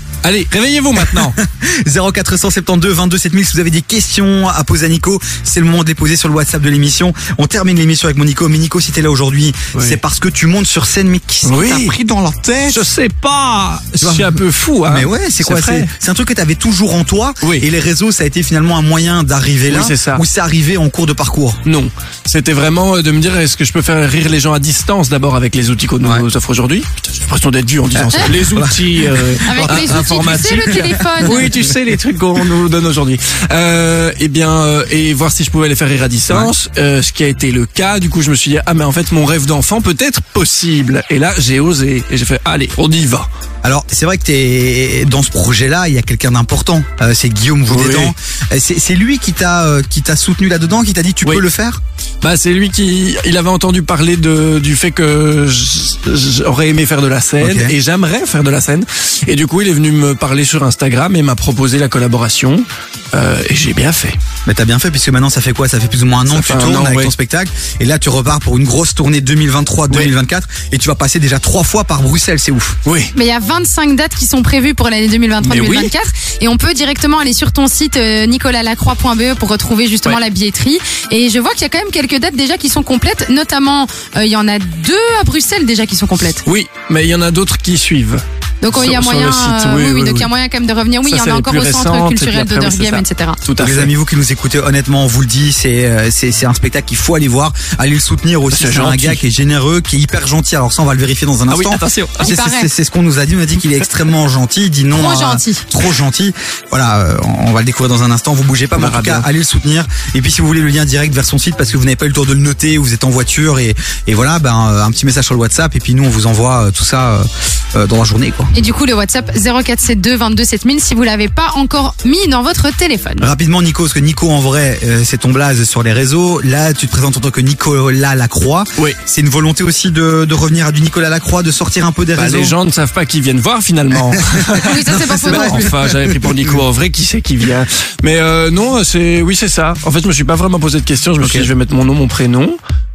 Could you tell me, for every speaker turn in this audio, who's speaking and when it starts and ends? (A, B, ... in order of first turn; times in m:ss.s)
0:00.2-0:01.4 A
0:01.0-0:12.8 B
0:11.4-0:12.0 A
0:12.7-0:15.9 A
0:14.0-0:14.4 B
0:14.9-0:21.6 B
0:17.4-0:17.7 A
0:19.7-0:20.2 A
0:21.6-0:43.3 A
0:28.0-0:29.4 B
0:29.4-0:31.4 C
0:30.3-0:31.6 B
0:43.6-0:51.8 B
0:47.7-0:48.1 A
0:52.2-1:04.2 A
0:57.4-0:57.7 B
1:04.5-1:12.8 B
1:06.3-1:07.1 A
1:12.8-1:13.1 A
1:13.2-1:26.4 C
1:15.4-1:15.9 A
1:26.4-1:30.3 A
1:28.6-1:33.4 C
1:31.0-1:33.9 A
1:33.6-1:58.5 B
1:38.5-1:39.3 A
1:41.5-1:42.4 A
1:42.3-1:42.7 C
1:44.9-1:45.6 C
1:48.8-1:49.3 A
1:58.5-2:03.3 C
2:03.2-2:12.6 B
2:12.2-2:22.6 A
2:14.7-2:15.6 C
2:14.9-2:16.6 B
2:21.2-2:21.5 B